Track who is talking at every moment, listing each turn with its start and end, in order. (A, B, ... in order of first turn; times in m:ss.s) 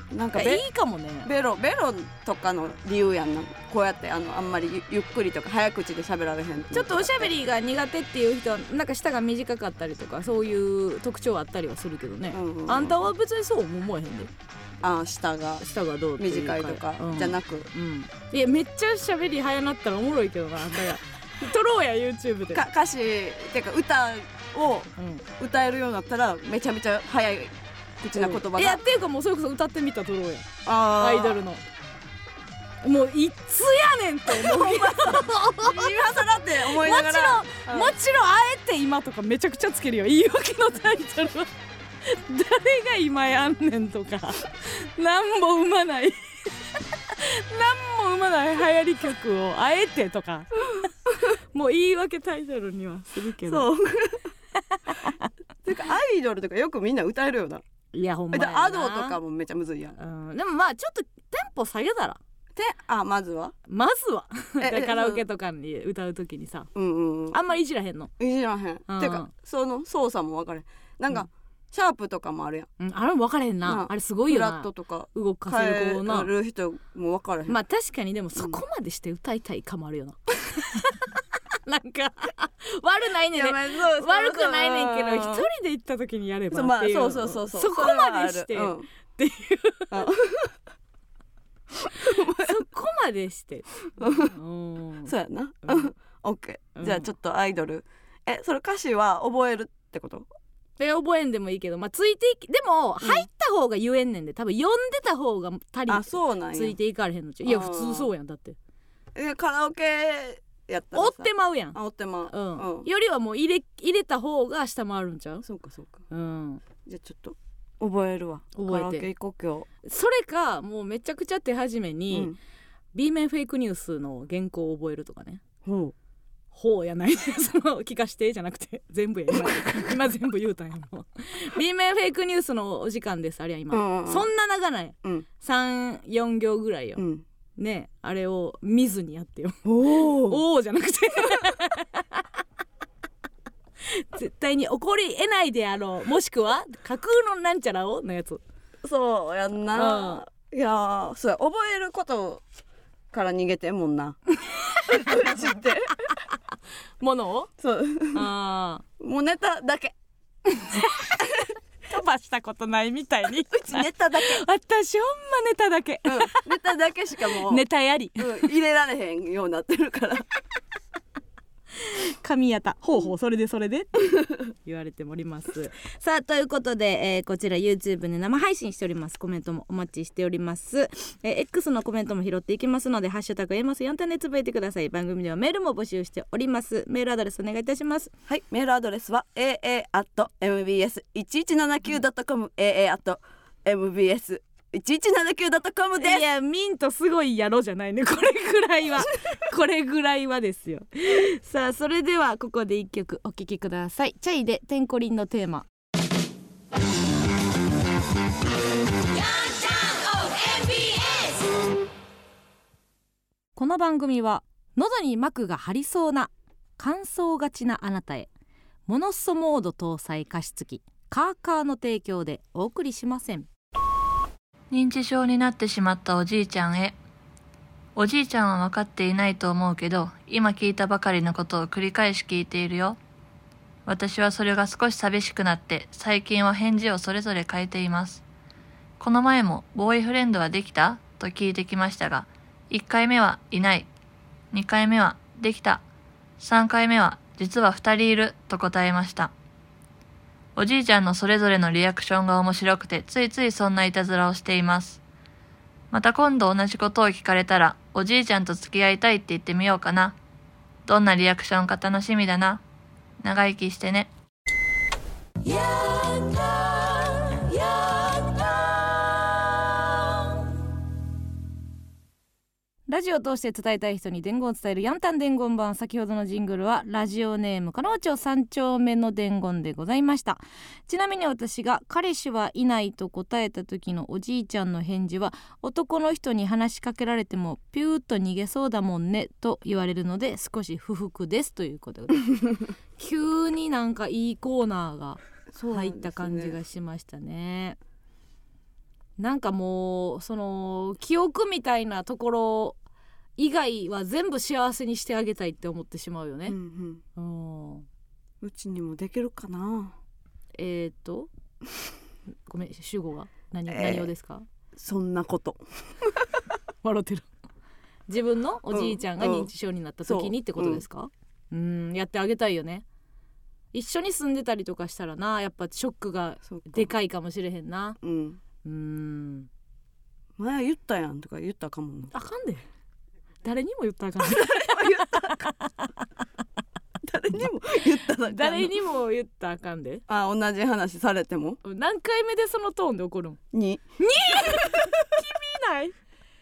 0:00.1-0:00.6 A
0:00.3-0:01.3 B
0:01.2-0:07.3 A
0:06.7-0:14.3 B
0:12.3-0:13.1 A
0:14.8-0:15.6 A
0:15.6-0:22.6 B
0:16.2-0:17.7 A
0:22.5-0:28.8 A
0:25.0-0:25.2 B
0:28.1-0:31.6 B
0:30.6-0:31.4 A
0:32.8-0:50.9 B
0:34.3-0:37.9 A
0:51.5-0:53.7 B
0:53.5-0:54.3 A
0:54.7-0:55.3 B
0:55.6-0:57.6 A
0:57.9-0:59.2 B
0:58.3-1:00.0 A
1:00.0-1:02.2 B
1:02.5-1:03.5 A
1:03.7-1:06.7 B
1:04.6-1:05.2 A
1:06.7-1:07.4 A
1:07.3-1:08.1 B
1:08.2-1:12.7 A
1:08.9-1:09.3 B
1:12.8-1:16.3 B
1:13.6-1:17.6 A
1:17.5-1:30.1 B
1:18.4-1:18.6 A
1:23.3-1:25.4 A
1:26.5-1:28.8 A
1:29.9-1:30.5 A
1:32.0-1:32.6 A
1:32.4-1:35.1 B
1:34.0-1:34.3 A
1:35.0-1:40.3 A
1:35.6-1:35.9 B
1:36.8-1:37.1 B
1:40.8-1:48.6 B
1:43.0-1:43.2 A
1:45.9-1:46.8 A
1:47.4-1:48.1 A
1:49.1-1:52.9 A
1:50.9-1:55.4 B
1:55.4-1:56.0 A
1:56.1-1:56.6 B
1:56.8-1:59.7 A
1:58.5-1:59.0 B
1:59.8-2:02.3 B
2:02.1-2:02.4 A
2:02.9-2:05.4 B
2:05.6-2:05.9 A
2:06.5-2:17.0 B
2:13.7-2:14.3 A
2:17.0-2:17.2 A
2:17.6-2:22.3 B
2:19.6-2:20.4 A
2:23.8-2:28.4 B
2:28.8-2:32.4 A
2:29.7-2:30.2 B
2:33.1-2:34.2 A
2:34.9-2:36.0 A
2:37.0-2:37.5 B
2:37.6-2:38.3 A
2:38.1-2:38.8 B
2:39.0-2:39.9 A
2:40.5-2:41.2 B
2:41.9-2:46.6 B
2:43.5-2:44.4 A
2:46.0-2:47.6 A
2:47.2-2:48.5 B
2:48.2-2:50.2 A
2:51.8-3:08.1 B
3:08.3-3:16.2 A
3:16.0-3:25.7 B
3:29.1-3:31.4 B
3:33.5-3:38.3 B
3:38.9-3:43.5 B
3:44.7-3:47.0 C
3:48.0-3:53.0 C
3:53.8-3:58.2 C
3:59.0-4:03.9 C
4:04.5-4:05.8 C
4:06.4-4:09.3 C
4:10.6-4:15.0 C
4:15.9-4:20.2 C
4:20.8-4:22.6 C
4:23.2-4:24.1 C
4:25.4-4:29.6 B
4:32.9-4:52.4 B
4:53.0-4:57.8 B
4:55.5-4:56.6 A
4:59.2-5:02.8 B
5:03.4-5:06.6 B
5:06.4-5:07.0 A
5:07.2-5:07.8 B
5:08.4-5:09.9 A
5:10.5-5:11.3 B
5:12.4-5:14.4 B
5:13.7-5:14.1 A
5:14.8-5:16.2 A
5:16.8-5:17.3 B
5:18.1-5:22.8 B
5:18.7-5:19.5 A
5:20.0-5:20.8 A
5:23.7-5:28.0 B
5:26.4-5:26.9 A
5:28.0-5:28.4 A
5:28.6-5:29.5 B
5:30.4-5:32.1 A
5:32.1-5:32.6 B
5:33.4-5:35.9 B
5:34.2-5:35.5 A
5:37.0-5:38.7 A
5:38.2-5:40.0 B
5:40.1-5:41.6 A
5:41.6-5:43.4 B
5:43.5-5:44.9 A
5:44.0-5:46.0 B